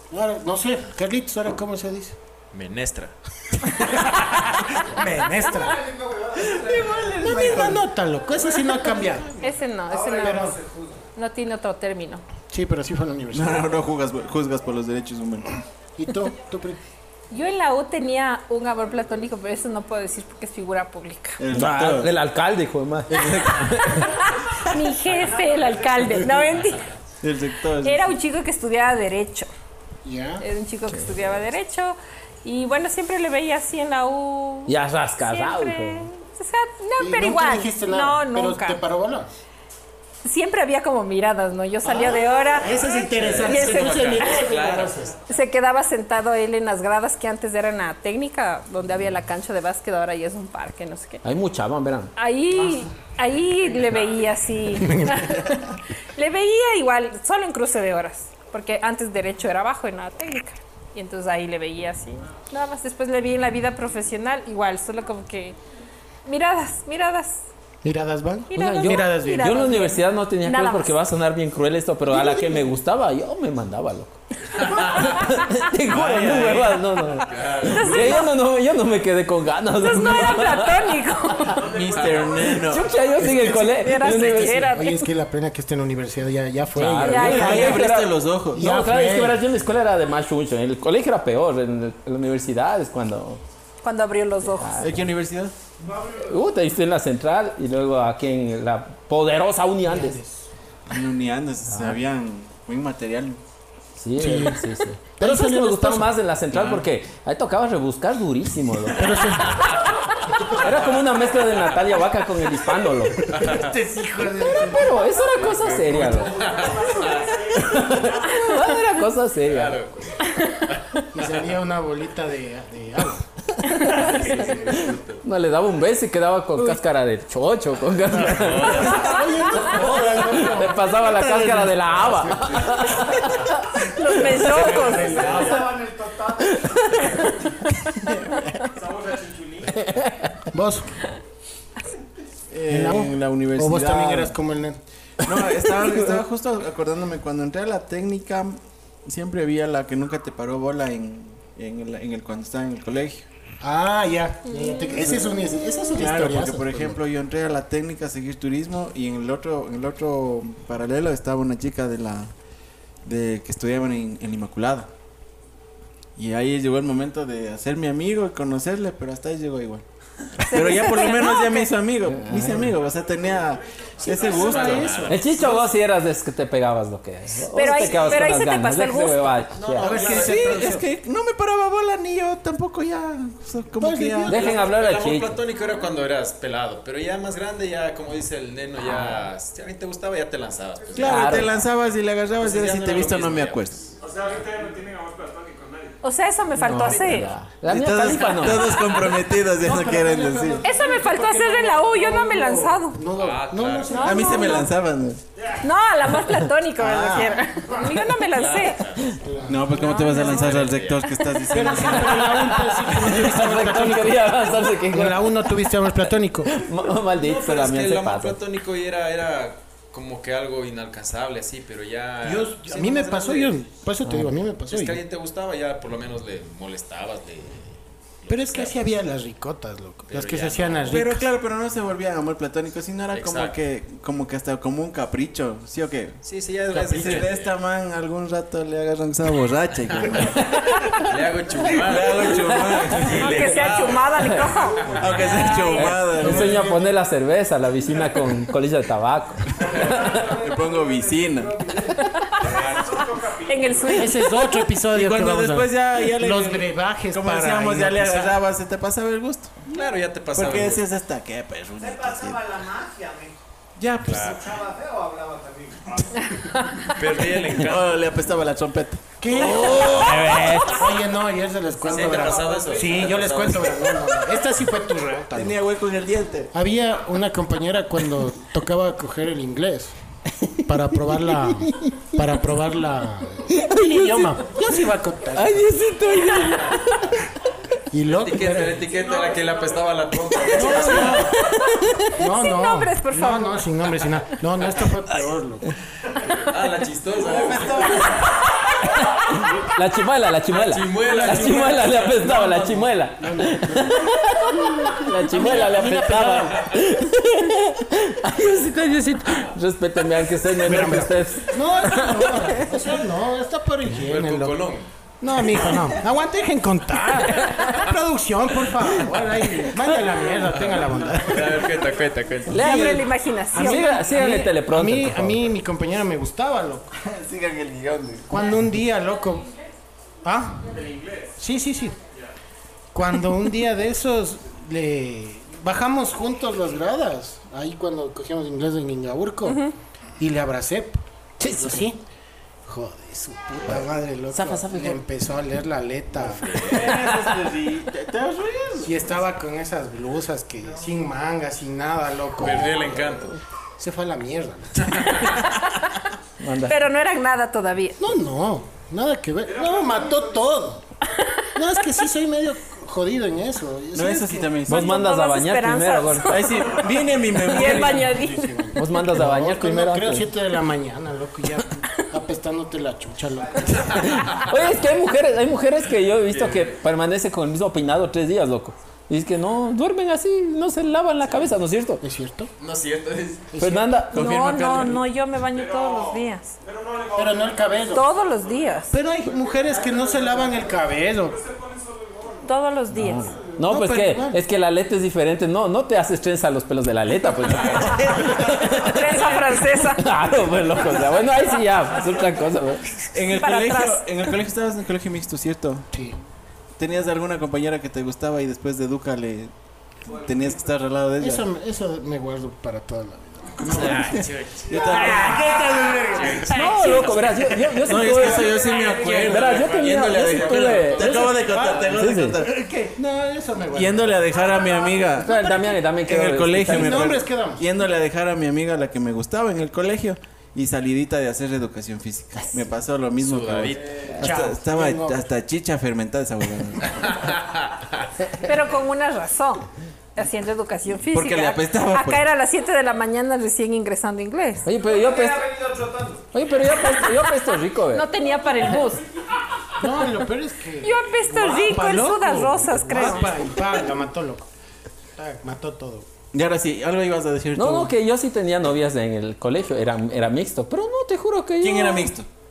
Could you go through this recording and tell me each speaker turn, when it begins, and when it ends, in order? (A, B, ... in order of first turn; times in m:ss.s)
0:00.1-0:02.2 A
0:02.5-0:03.2 B
0:04.0-0:04.5 B
0:04.8-0:05.9 A
0:05.5-0:07.3 C
0:06.4-0:07.8 D
0:07.2-0:09.4 A
0:08.3-0:11.0 C
0:09.4-0:10.6 E
0:10.2-0:10.6 A
0:11.1-0:12.2 E
0:12.5-0:13.8 A
0:13.3-0:15.6 D
0:16.0-0:16.8 A
0:17.3-0:21.4 E
0:21.4-0:22.1 D
0:21.5-0:24.3 F
0:23.1-0:24.0 D
0:23.6-0:26.9 E
0:25.1-0:26.7 C
0:27.2-0:28.2 D
0:27.8-0:29.5 E
0:30.0-0:30.4 A
0:30.4-0:38.8 E
0:34.7-0:36.1 F
0:37.0-0:39.3 A
0:40.2-0:44.3 E
0:41.8-0:45.2 A
0:43.1-0:45.0 B
0:45.3-0:51.2 E
0:51.2-0:52.1 F
0:52.2-1:05.6 E
0:54.8-0:55.3 A
1:06.3-1:07.5 E
1:07.8-1:09.7 A
1:08.5-1:10.9 E
1:08.6-1:20.9 F
1:12.1-1:12.6 A
1:14.6-1:15.1 B
1:15.8-1:16.8 D
1:17.3-1:18.2 B
1:17.6-1:18.3 E
1:19.8-1:21.7 E
1:21.5-1:22.6 C
1:21.6-1:23.4 D
1:21.8-1:22.3 B
1:22.5-1:24.7 F
1:23.2-1:27.9 A
1:23.6-1:25.1 E
1:26.7-1:33.4 F
1:27.0-1:27.8 E
1:27.1-1:28.7 D
1:28.6-1:29.4 A
1:33.8-1:34.9 E
1:34.5-1:35.0 F
1:34.8-1:35.5 D
1:35.8-1:36.4 C
1:36.2-1:40.2 F
1:39.8-1:40.4 A
1:40.9-1:43.4 D
1:41.7-1:42.0 F
1:44.0-1:49.7 F
1:44.2-1:44.7 A
1:45.2-1:46.1 A
1:48.9-1:49.8 A
1:50.4-1:53.6 F
1:53.3-1:53.7 B
1:53.3-1:54.9 A
1:54.6-1:56.4 F
1:55.3-1:57.6 B
1:56.1-1:58.3 C
1:57.5-1:59.8 F
1:59.5-2:01.4 B
2:00.2-2:00.6 E
2:01.1-2:03.3 A
2:03.6-2:13.8 F
2:03.8-2:04.0 E
2:03.9-2:05.2 B
2:08.1-2:09.2 B
2:08.9-2:13.3 A
2:09.0-2:10.4 D
2:12.2-2:12.5 D
2:13.9-2:15.5 E
2:14.1-2:15.4 A
2:14.3-2:14.6 D
2:14.6-2:17.4 C
2:14.6-2:15.6 B
2:16.5-2:17.2 F
2:18.0-2:18.7 D
2:18.8-2:19.7 C
2:18.8-2:19.7 G
2:19.7-2:20.5 F
2:20.5-2:21.0 A
2:22.5-2:24.4 D
2:22.7-2:24.8 A
2:25.2-2:33.3 D
2:33.6-2:37.0 A
2:34.5-2:35.0 E
2:35.0-2:35.4 D
2:35.5-2:35.9 E
2:35.9-2:42.3 D
2:43.0-2:44.9 D
2:46.2-2:49.8 D
2:50.4-2:55.2 D
2:50.4-2:51.7 E
2:52.1-2:52.8 F
2:52.8-2:54.8 C
2:54.0-2:55.6 A
2:54.1-2:55.2 B
2:55.1-3:00.0 F
2:57.5-2:59.5 E
2:59.6-3:00.7 B
2:59.8-3:00.9 A
2:59.9-3:04.4 D
3:03.8-3:04.7 A
3:04.3-3:05.4 F
3:04.3-3:11.6 B
3:08.8-3:09.3 F
3:11.0-3:14.0 D
3:11.0-3:11.5 F
3:12.4-3:14.0 B
3:14.0-3:14.9 C
3:14.0-3:15.9 G
3:16.0-3:17.3 E
3:16.6-3:18.8 F
3:17.7-3:20.6 D
3:18.3-3:19.2 B
3:19.6-3:24.7 A
3:20.2-3:20.6 C
3:20.6-3:23.0 E
3:23.2-3:24.0 B
3:23.9-3:24.7 E
3:24.0-3:25.2 D
3:25.6-3:28.8 E
3:26.8-3:27.5 D
3:28.3-3:29.2 B
3:29.2-3:30.6 A
3:29.4-3:32.5 D
3:29.7-3:31.2 B
3:31.5-3:36.6 A
3:32.2-3:35.8 F
3:36.5-3:38.4 F
3:37.2-3:43.6 B
3:42.2-3:45.0 A
3:44.7-3:48.8 B
3:48.3-3:51.3 A
3:50.1-3:51.0 B
3:50.9-4:00.7 D
3:53.1-3:53.6 B
3:56.2-3:57.5 B
3:59.9-4:00.2 B
4:00.3-4:01.1 F
4:00.9-4:05.7 B
4:01.7-4:03.3 D
4:02.4-4:03.1 F
4:03.2-4:05.7 E
4:04.1-4:04.5 F
4:04.8-4:05.4 C
4:05.0-4:06.8 D
4:05.7-4:10.3 F
4:06.2-4:06.8 A
4:09.6-4:14.0 C
4:10.3-4:11.6 D
4:11.9-4:12.7 E
4:12.4-4:13.0 B
4:13.0-4:13.8 G
4:13.4-4:14.7 E
4:13.9-4:18.4 A
4:14.9-4:19.7 D
4:19.7-4:20.9 B
4:20.3-4:22.5 D
4:21.8-4:23.4 C
4:23.8-4:24.2 D
4:24.0-4:24.4 B
4:24.2-4:26.1 C
4:26.1-4:27.0 E
4:26.8-4:27.9 B
4:27.6-4:29.0 D
4:29.2-4:35.6 A
4:29.4-4:30.9 F
4:29.6-4:30.8 E
4:31.8-4:33.4 C
4:31.8-4:34.1 B
4:35.3-4:36.5 D
4:36.5-4:40.0 A
4:40.6-4:45.8 A
4:41.8-4:42.1 F
4:43.5-4:44.3 F
4:45.4-4:47.2 F
4:47.9-4:48.8 A
4:48.1-4:51.3 B
4:48.8-4:51.0 C
4:50.5-4:51.4 A
4:51.0-4:54.0 E
4:51.6-4:52.1 F
4:52.0-4:55.7 A
4:56.2-4:58.3 B
4:57.4-4:58.3 C
4:58.1-5:12.7 F
5:00.5-5:02.6 B
5:01.2-5:01.6 A
5:02.2-5:06.8 A
5:10.6-5:14.7 A
5:14.0-5:14.9 B
5:15.2-5:21.8 A
5:17.4-5:17.7 F
5:20.4-5:22.9 B
5:22.5-5:25.5 F
5:22.5-5:24.1 E
5:22.5-5:23.0 A
5:23.5-5:26.9 A
5:27.0-5:28.4 D
5:28.3-5:29.5 A
5:30.2-5:30.8 A
5:30.9-5:31.2 G
5:31.4-5:32.0 A
5:32.9-5:39.7 A
5:39.5-5:39.7 E
5:40.2-5:42.0 A
5:41.4-5:41.8 F
5:42.6-5:46.8 A
5:44.3-5:45.0 F
5:46.3-5:47.0 B
5:46.5-5:49.0 D
5:48.8-5:55.3 A
5:52.4-5:53.4 B
5:54.8-5:55.4 B
5:55.6-5:56.0 E
5:56.4-5:56.8 F
5:56.7-5:58.0 E
5:58.0-6:00.9 A
6:01.1-6:01.5 E
6:01.6-6:04.7 A
6:03.9-6:05.0 D
6:04.7-6:08.8 E
6:04.7-6:06.4 F
6:06.3-6:08.4 D
6:07.5-6:14.1 A
6:08.8-6:10.3 F
6:13.7-6:14.5 B
6:14.1-6:22.0 F
6:16.3-6:16.8 B
6:22.0-6:22.5 A
6:22.6-6:23.5 B
6:23.5-6:23.9 A
6:23.6-6:24.3 F
6:24.1-6:25.0 D
6:24.1-6:26.6 E
6:25.6-6:26.2 C
6:26.6-6:27.5 G
6:27.0-6:28.6 C
6:27.2-6:28.1 A
6:27.9-6:29.0 E
6:28.9-6:31.4 A
6:29.4-6:30.6 C
6:31.5-6:32.4 G
6:32.4-6:33.4 E
6:32.9-6:43.1 F
6:33.6-6:34.4 A
6:38.6-6:40.1 E
6:43.1-6:45.9 D
6:43.4-6:44.1 E
6:45.9-6:46.2 A
6:46.8-6:49.5 D
6:50.0-6:51.5 D
6:50.1-6:50.7 C
6:51.2-6:57.6 A
6:53.6-6:55.3 B
6:53.6-6:55.7 D
6:54.7-6:56.1 C
6:56.0-6:57.3 B
6:56.5-6:58.6 F
6:56.5-6:57.2 E
6:57.8-7:02.6 D
6:58.1-7:02.0 B
6:58.4-6:59.3 C
6:59.2-7:01.2 F
7:01.0-7:04.4 A
7:01.9-7:02.4 F
7:03.7-7:17.2 D
7:04.3-7:05.2 C
7:05.2-7:07.1 F
7:05.3-7:05.7 A
7:06.7-7:07.7 A
7:13.2-7:14.1 B
7:13.8-7:14.1 C
7:14.2-7:15.3 A
7:17.0-7:18.1 B
7:18.4-7:24.7 E
7:21.1-7:22.3 D
7:24.6-7:25.5 F
7:24.8-7:26.5 C
7:26.3-7:28.1 F
7:26.7-7:27.3 E
7:27.9-7:29.0 E
7:29.8-7:34.5 A
7:30.8-7:33.3 E
7:35.2-7:36.1 A
7:36.3-7:38.0 D
7:37.6-7:42.1 F
7:41.6-7:42.3 D